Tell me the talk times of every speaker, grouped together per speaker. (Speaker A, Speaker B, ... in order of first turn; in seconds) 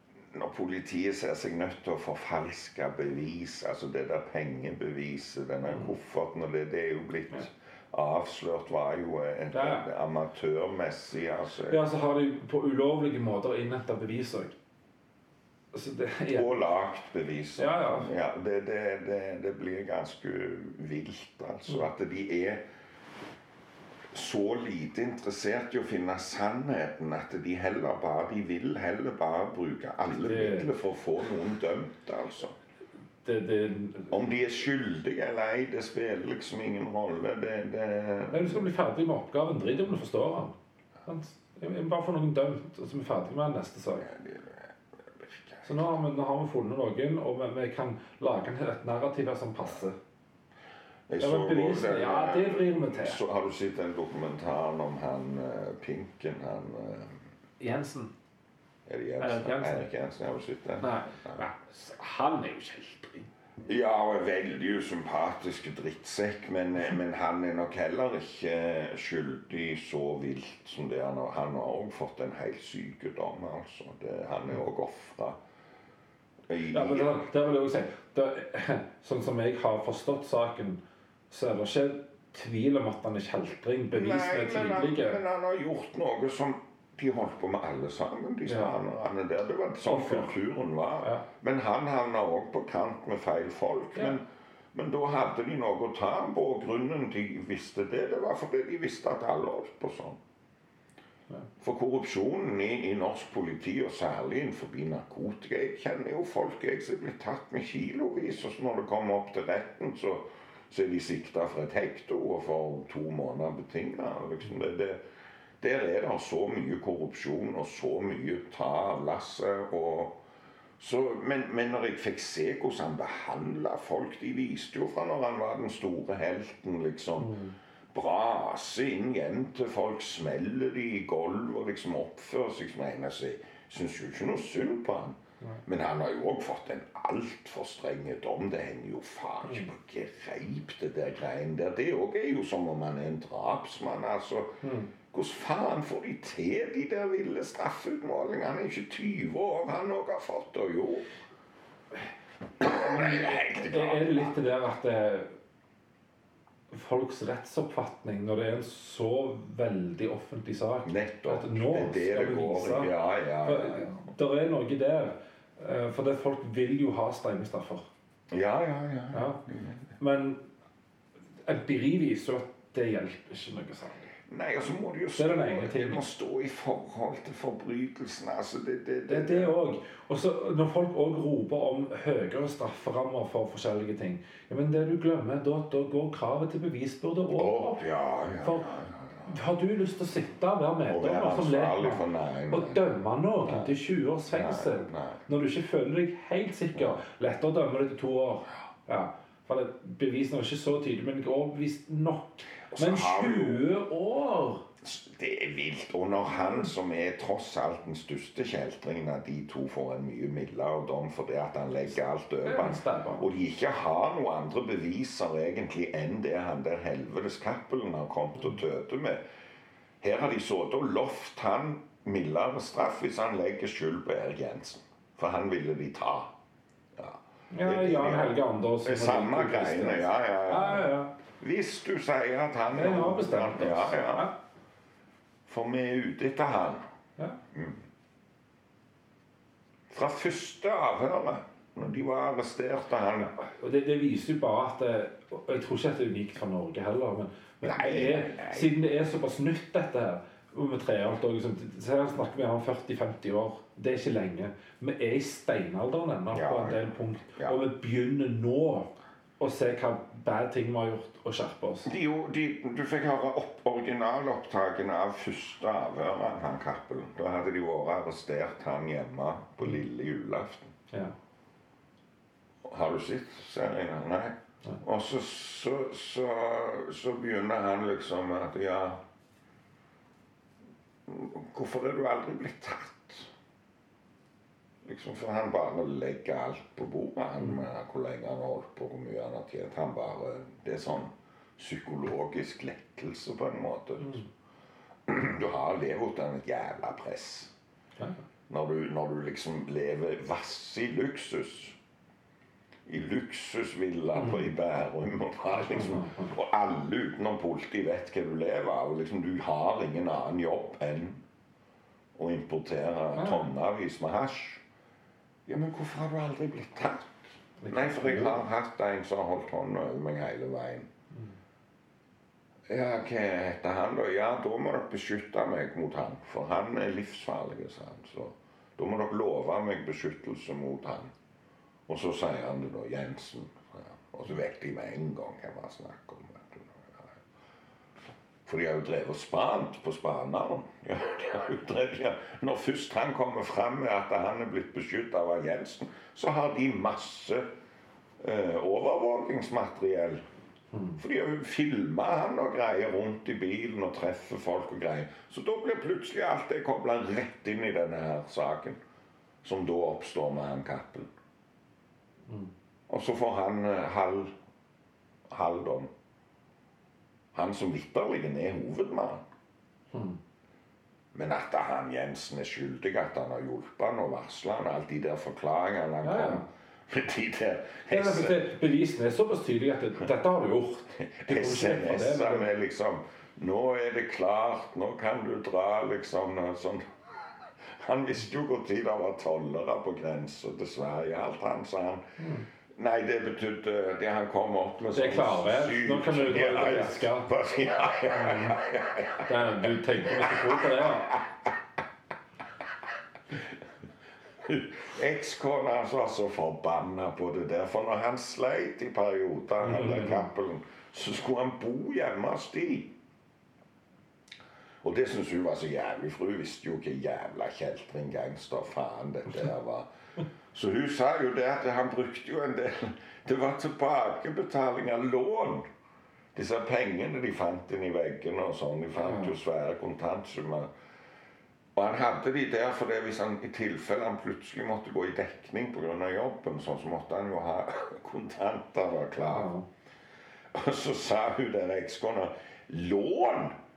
Speaker A: 0.3-11.8, 16.3-22.6, 24.1-32.6, 34.1-38.7, 44.0-46.0, 51.1-57.2, 58.9-61.4, 63.6-75.4, 76.5-77.2, 83.9-100.2, 101.6-115.0, 115.6-120.2, 120.8-127.4, 127.9-151.1, 152.6-154.4, 160.8-164.2, 168.3-169.9, 174.3-179.7, 187.3-189.3, 190.8-192.8, 193.4-193.8, 194.3-195.2, 196.8-197.0, 202.7-203.6, 204.8-219.2, 220.0-226.3, 226.9-234.3, 235.5-236.8, 237.5-237.8, 239.9-243.3, 247.6-248.8, 256.3-257.7, 261.9-270.7, 272.6-279.0, 281.1-283.3, 284.9-294.2, 295.1-297.5, 298.5-301.8, 302.9-311.2, 312.1-314.6, 315.5-320.9, 322.7-331.1, 331.9-337.2, 338.5-347.5, 348.2-350.2, 351.0-358.8, 359.4-361.1, 362.9-364.4, 365.3-365.9, 367.3-369.2, 371.1-378.4, 381.0-386.8, 387.6-392.0, 392.8-401.3, 404.4-412.9, 414.8-419.9, 420.5-425.7, 426.3-430.7, 431.8-439.5, 440.5-443.6
Speaker B: 5.7-5.9, 9.5-9.9, 11.7-14.6, 15.7-16.5, 17.6-18.1, 30.1-30.7, 33.2-34.3, 38.3-40.5, 41.1-44.1, 45.6-50.0, 51.2-53.2, 57.6-58.1, 59.2-59.9, 60.8-63.3, 76.7-85.2, 88.5-88.8, 89.9-90.3, 127.2-127.6, 144.6-144.9, 152.6-155.3, 156.7-167.9, 169.1-169.4, 170.0-170.4, 171.4-174.1, 175.2-176.0, 179.1-187.8, 188.4-188.7, 189.3-204.7, 212.4-213.3, 227.5-231.1, 232.7-234.3, 243.4-261.9, 304.2-304.5, 305.5-306.3, 313.1-313.5, 317.6-318.4, 350.7-351.0, 369.9-370.2, 376.0-376.5, 377.9-382.5, 392.2-392.5, 394.9-397.3, 398.1-398.6, 399.2-401.2, 409.6-410.3, 429.0-429.3, 439.3-439.6